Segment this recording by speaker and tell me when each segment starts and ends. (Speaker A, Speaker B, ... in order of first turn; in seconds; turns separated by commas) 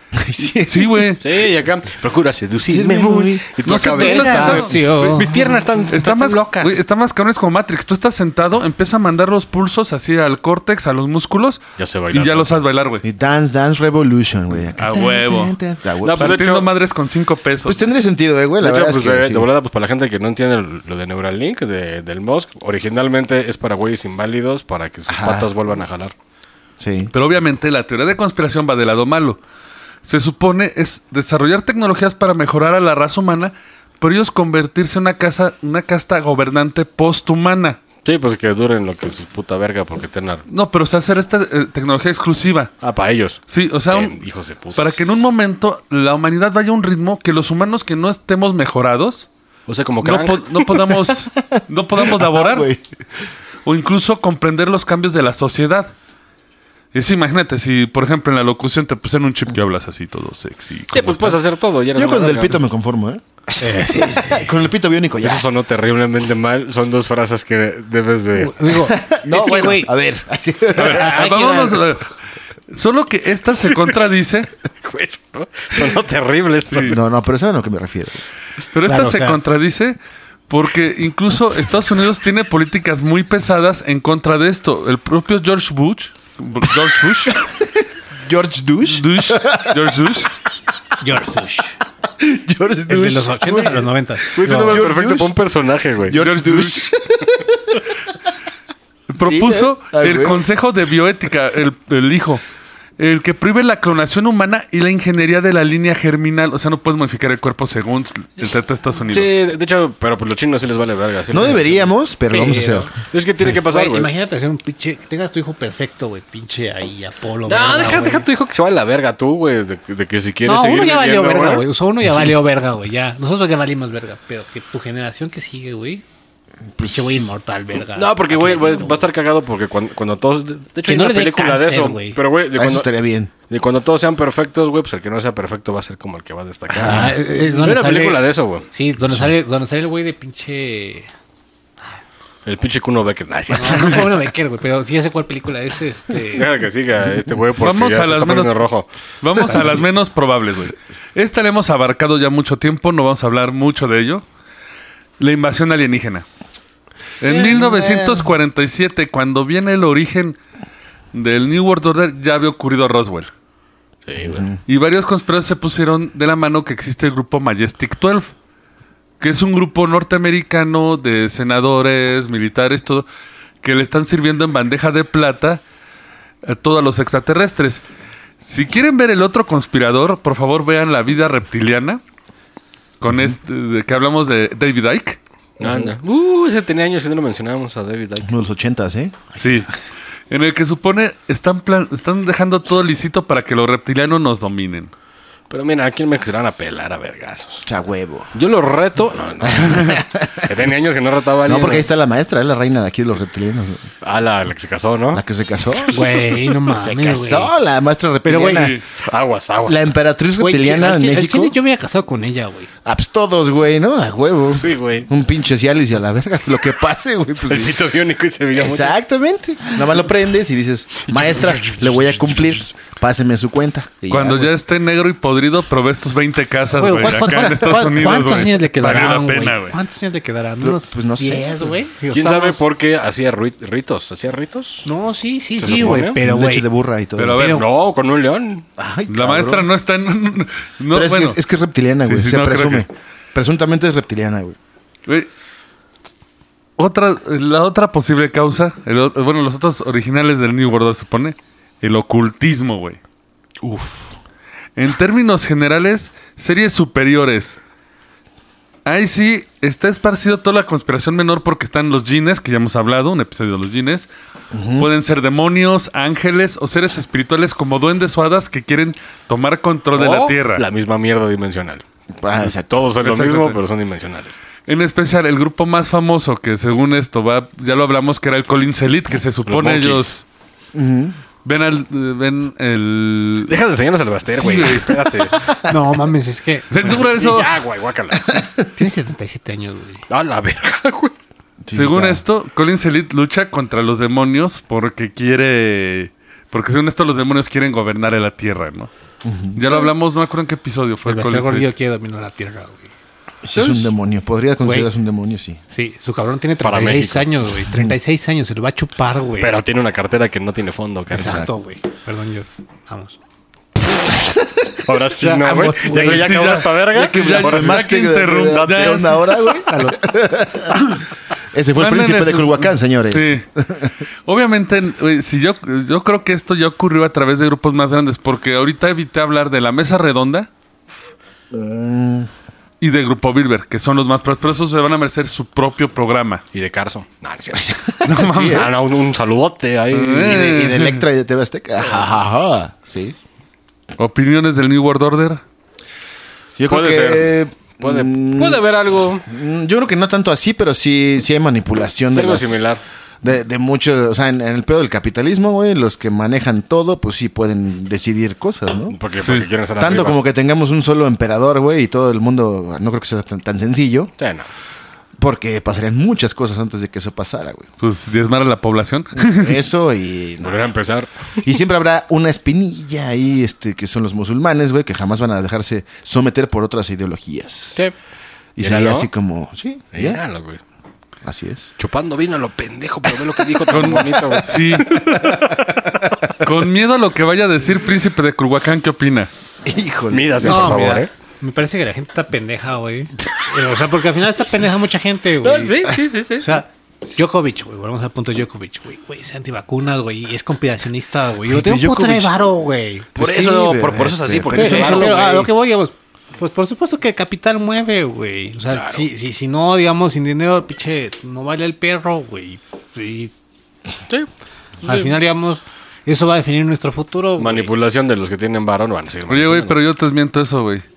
Speaker A: 0.2-1.1, Speaker B: 0.4-1.2, Speaker C: 1.2-6.8, Speaker A: 2.6-3.5, Speaker B: 3.6-5.2, Speaker D: 3.9-5.6, Speaker B: 5.9-13.0, Speaker C: 11.8-12.6, Speaker A: 13.0-16.4, Speaker B: 14.8-15.6, Speaker C: 16.0-16.7, Speaker B: 16.1-17.8, Speaker A: 17.6-19.5, Speaker C: 18.6-26.1, Speaker A: 25.1-25.5, Speaker A: 26.8-27.1, Speaker B: 27.1-29.4, Speaker B: 30.0-37.8, Speaker C: 38.0-40.4, Speaker B: 40.5-42.8, Speaker C: 42.8-43.4, Speaker B: 43.5-44.2, Speaker C: 43.9-45.1, Speaker B: 44.7-49.3, Speaker C: 49.7-50.6, Speaker B: 50.0-52.7, Speaker A: 50.7-52.8, Speaker B: 53.6-55.9, Speaker B: 56.9-61.4, Speaker C: 60.9-62.6, Speaker A: 61.9-63.2, Speaker D: 63.6-64.5, Speaker A: 64.1-65.5, Speaker C: 65.2-68.6, Speaker D: 68.4-69.9, Speaker A: 68.8-71.2, Speaker D: 70.7-71.8, Speaker B: 70.8-72.1, Speaker B: 72.7-74.5, Speaker C: 74.8-77.0, Speaker B: 76.7-77.0, Speaker A: 76.9-78.2, Speaker B: 78.7-80.0, Speaker D: 78.9-79.4, Speaker B: 80.5-87.3, Speaker A: 87.3-89.8, Speaker B: 88.8-90.3, Speaker D: 91.0-91.7, Speaker A: 92.2-95.3, Speaker D: 92.9-94.9, Speaker C: 94.3-96.2, Speaker A: 96.1-97.9, Speaker B: 96.2-96.9, Speaker B: 99.1-102.4, Speaker A: 99.2-100.4, Speaker B: 103.0-109.3, Speaker C: 109.1-111.9, Speaker A: 111.3-112.9, Speaker D: 112.3-118.2, Speaker C: 113.0-114.1, Speaker C: 117.5-121.7, Speaker D: 120.5-126.0, Speaker A: 126.8-127.3, Speaker D: 126.9-129.0, Speaker C: 127.9-132.9, Speaker D: 130.8-132.2, Speaker A: 132.5-133.3, Speaker C: 133.5-138.7, Speaker D: 136.7-141.1, Speaker C: 142.4-144.2, Speaker D: 143.5-146.5, Speaker C: 146.3-148.9, Speaker B: 147.6-148.6, Speaker B: 149.2-154.2, Speaker D: 149.4-149.9, Speaker B: 155.2-156.2, Speaker B: 157.2-160.4, Speaker A: 157.3-158.3, Speaker B: 161.1-163.3, Speaker C: 164.1-164.5, Speaker A: 164.2-164.6, Speaker B: 164.7-168.3, Speaker B: 169.2-173.1, Speaker B: 173.6-175.6, Speaker B: 176.4-177.8, Speaker B: 178.4-182.0, Speaker B: 183.0-185.2, Speaker C: 185.6-188.3, Speaker A: 185.6-185.9, Speaker A: 188.2-189.7, Speaker B: 189.4-189.7, Speaker B: 190.3-194.9, Speaker C: 195.5-197.7, Speaker A: 197.7-198.3, Speaker C: 198.3-201.9, Speaker A: 199.4-200.5, Speaker A: 201.4-203.8, Speaker C: 204.0-207.2, Speaker A: 205.1-206.1, Speaker D: 205.9-207.5, Speaker A: 207.0-208.8, Speaker D: 208.2-208.7, Speaker B: 208.5-208.8, Speaker C: 209.0-209.9, Speaker A: 209.7-211.5, Speaker D: 210.4-212.7, Speaker A: 212.8-217.8, Speaker C: 214.5-215.1, Speaker C: 217.4-218.9, Speaker A: 218.5-224.5, Speaker C: 221.1-221.6, Speaker B: 224.1-229.8, Speaker D: 226.8-232.6, Speaker A: 230.6-231.7, Speaker C: 232.1-234.9, Speaker D: 234.8-236.7, Speaker C: 235.6-236.2, Speaker A: 235.6-237.4, Speaker B: 237.2-237.7, Speaker D: 237.3-237.7, Speaker C: 237.5-238.7, Speaker A: 238.8-239.7, Speaker B: 239.1-241.4, Speaker A: 240.9-244.6, Speaker B: 242.0-242.9, Speaker B: 246.8-253.0, Speaker A: 253.6-254.2, Speaker B: 254.8-257.6, Speaker B: 258.9-264.1, Speaker A: 264.5-264.9, Speaker B: 264.8-270.6, Speaker C: 269.9-271.8, Speaker A: 272.2-272.7, Speaker C: 272.6-274.4, Speaker B: 273.0-273.6, Speaker B: 274.7-280.2, Speaker C: 279.5-280.2, Speaker A: 280.7-281.2, Speaker B: 281.4-283.6, Speaker C: 283.5-285.6, Speaker B: 284.3-285.2, Speaker D: 285.6-286.8, Speaker B: 286.7-287.6, Speaker C: 286.8-288.4, Speaker D: 288.7-290.0, Speaker C: 290.1-291.1, Speaker A: 291.6-292.2, Speaker B: 291.7-298.9, Speaker A: 299.2-299.6, Speaker B: 299.5-301.7, Speaker D: 301.0-302.9, Speaker A: 303.4-305.6, Speaker B: 303.5-303.9, Speaker D: 304.6-304.9, Speaker D: 305.7-309.6, Speaker C: 306.6-307.3, Speaker A: 307.7-307.9, Speaker C: 309.4-311.4, Speaker A: 311.1-311.5, Speaker D: 311.1-313.2, Speaker A: 314.2-314.8, Speaker C: 314.8-317.9, Speaker D: 315.2-316.3, Speaker A: 315.3-316.2, Speaker B: 316.0-319.5, Speaker A: 316.9-320.9, Speaker C: 318.5-319.0, Speaker D: 319.6-320.1, Speaker A: 321.5-323.9, Speaker B: 321.8-323.4, Speaker B: 324.2-330.5, Speaker A: 331.5-332.3, Speaker B: 332.8-336.4, Speaker C: 336.5-337.7, Speaker A: 337.5-338.7, Speaker B: 338.0-338.7, Speaker C: 338.5-340.5, Speaker B: 339.9-341.0, Speaker A: 340.2-343.1, Speaker B: 344.0-345.4, Speaker A: 346.6-348.6, Speaker C: 346.7-349.2, Speaker A: 349.2-352.6, Speaker C: 352.1-352.8, Speaker A: 353.2-358.9, Speaker C: 358.9-360.2, Speaker B: 359.2-359.5, Speaker A: 359.8-364.1, Speaker C: 364.2-364.5, Speaker A: 365.2-367.7, Speaker B: 367.8-369.6, Speaker A: 369.1-370.6, Speaker C: 370.4-371.4, Speaker A: 371.4-377.8, Speaker A: 378.6-380.2, Speaker C: 378.6-379.1, Speaker C: 379.9-380.6, Speaker A: 381.2-381.7, Speaker C: 381.8-386.3, Speaker B: 383.7-385.0, Speaker A: 384.8-385.7, Speaker B: 386.4-389.3, Speaker A: 389.6-390.8, Speaker C: 390.1-391.1, Speaker D: 390.4-403.1, Speaker C: 395.4-396.6, Speaker A: 401.5-402.3, Speaker C: 403.1-405.3, Speaker A: 403.1-405.5, Speaker D: 404.5-413.3, Speaker C: 408.7-409.1, Speaker C: 414.8-415.1, Speaker D: 414.8-417.7, Speaker C: 417.4-419.8, Speaker B: 419.3-420.8